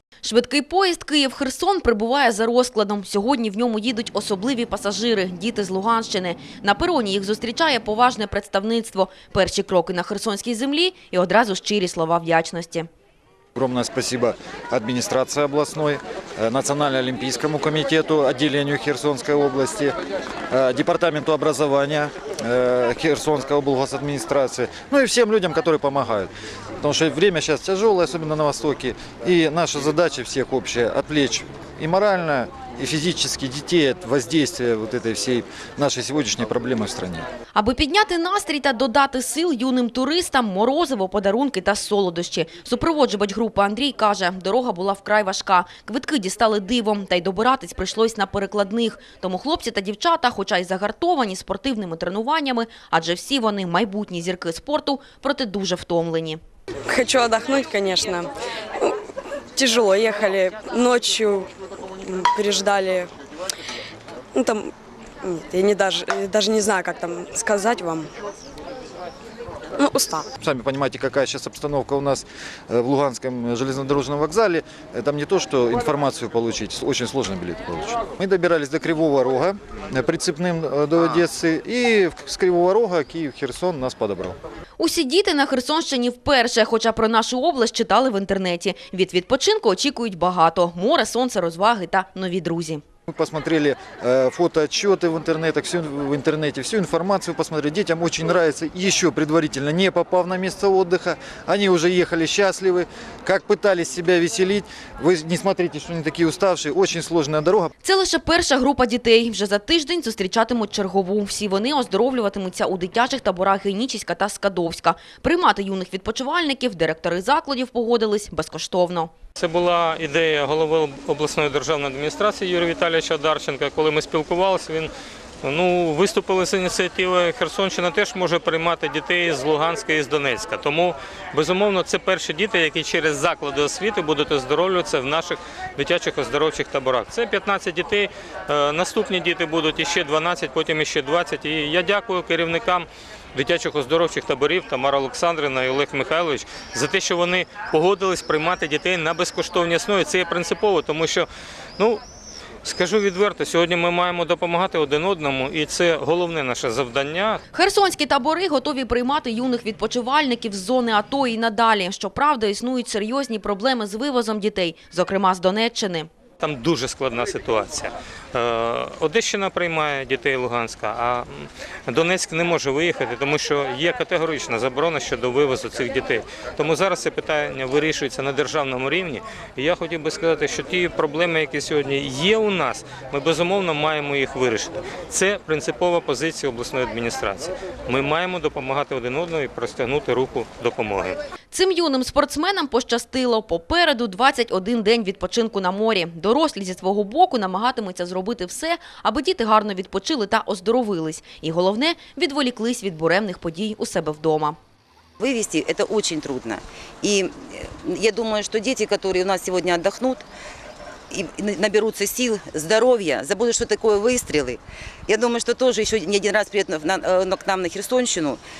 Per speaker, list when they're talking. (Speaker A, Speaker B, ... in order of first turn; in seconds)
Speaker A: 0.2-12.9, 37.5-56.4, 84.8-92.8, 107.8-119.1, 157.5-166.1, 191.5-204.6
Speaker B: 13.5-19.9, 20.5-37.2, 70.4-84.4, 93.1-107.7
Speaker C: 56.9-59.0, 59.5-61.5, 62.0-63.1, 64.3-64.7, 65.2-68.1, 69.8-70.2
Speaker D: 119.4-124.9, 125.4-152.0, 152.6-157.4, 166.4-191.2
Speaker E: 205.2-210.2, 211.1-218.4